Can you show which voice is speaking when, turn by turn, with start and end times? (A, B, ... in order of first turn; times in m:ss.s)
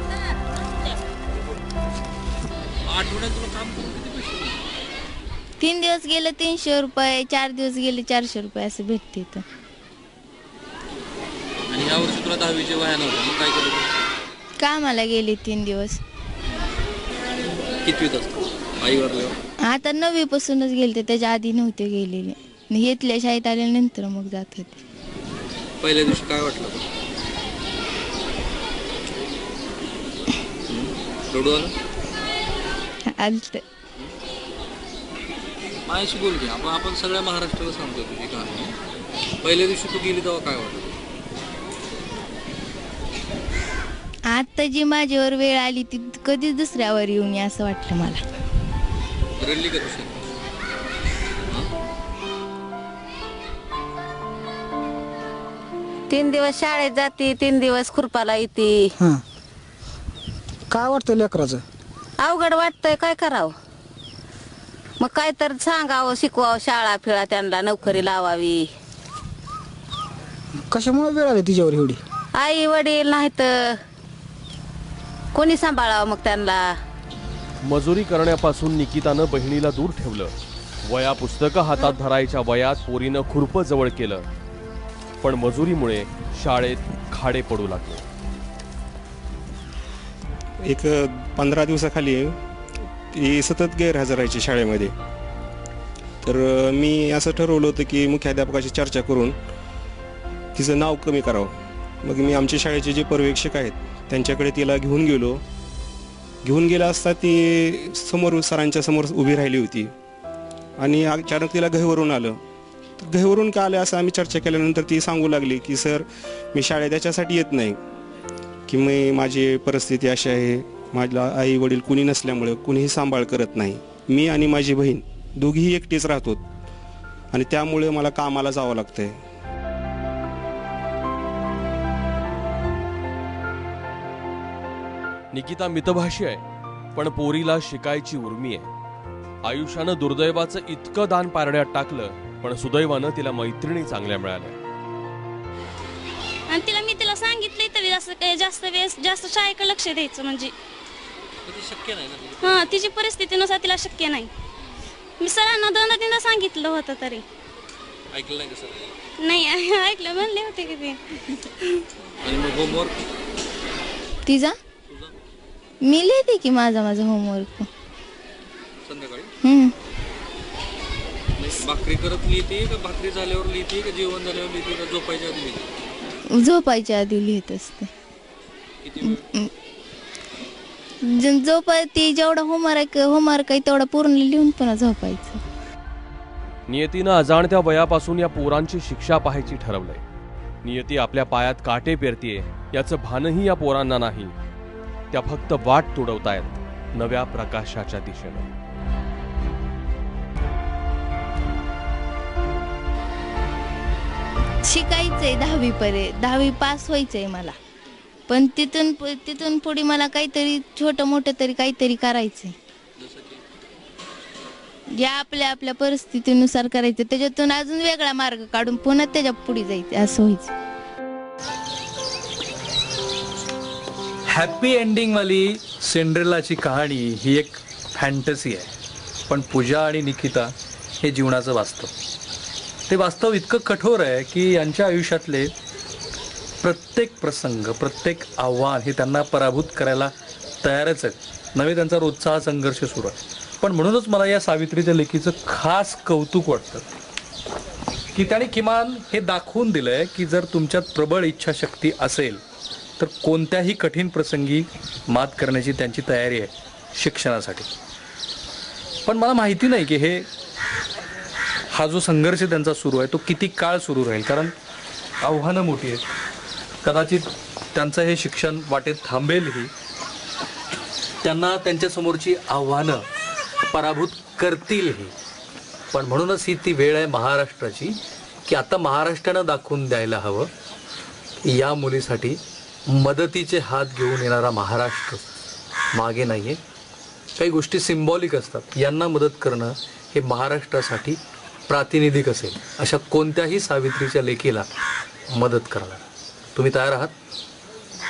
0:02.9-0:04.6 A
0:05.6-0:09.4 B
0:11.7-0:13.9 A
0:14.6-0:16.0 B
0:17.8-0:19.3 A
0:19.7-0:24.8 B
0:25.8-0:26.8 A
0:30.7-0:31.7 A
0:33.2-0:33.6 B
0:35.9-0:38.7 A
0:39.4-0:40.8 A
0:44.3-0:48.2 B
0:49.4-0:50.1 A
0:56.1-0:58.9 C
1:00.7-1:01.6 D
1:02.2-1:03.6 C
1:05.0-1:08.7 C
1:10.7-1:12.0 D
1:12.3-1:13.8 C
1:15.3-1:16.8 C
1:17.6-1:20.3 E
1:20.9-1:24.3 E
1:25.2-1:28.0 E
1:30.6-1:32.4 F
1:33.1-1:34.9 F
1:36.2-1:39.4 F
1:40.6-1:45.4 F
1:46.4-1:49.9 F
1:50.8-1:52.4 F
1:53.0-1:57.8 F
1:58.7-2:06.4 F
2:07.3-2:09.2 F
2:15.3-2:16.4 E
2:17.0-2:18.7 E
2:19.4-2:24.6 E
2:26.5-2:30.5 G
2:31.4-2:32.7 A
2:32.4-2:34.3 G
2:35.2-2:37.2 G
2:38.1-2:38.9 A
2:39.2-2:41.8 G
2:42.2-2:43.0 A
2:44.2-2:44.5 B
2:45.8-2:47.7 B
2:48.8-2:49.3 A
2:49.4-2:49.7 B
2:51.4-2:55.7 A
2:56.4-2:57.9 B
2:58.8-2:59.2 A
2:59.0-2:59.5 B
3:01.0-3:05.4 B
3:06.7-3:10.0 E
3:10.6-3:14.3 E
3:15.1-3:18.5 E
3:24.6-3:27.6 B
3:28.3-3:32.6 B
3:33.0-3:33.4 A
3:35.0-3:40.5 B
3:44.3-3:48.7 H
3:49.3-3:51.9 H
3:52.9-3:55.5 H
3:56.6-4:00.1 H
4:00.6-4:06.8 H
4:08.2-4:12.4 H
4:13.0-4:17.7 H
4:19.1-4:20.3 H
4:21.7-4:24.5 H
4:25.2-4:26.0 H
4:26.8-4:29.7 H
4:31.2-4:33.0 H
4:33.7-4:35.1 H
4:35.9-4:40.5 H
4:41.4-4:45.2 H
4:45.9-4:46.6 H
4:47.4-4:54.7 H
4:55.3-4:57.1 H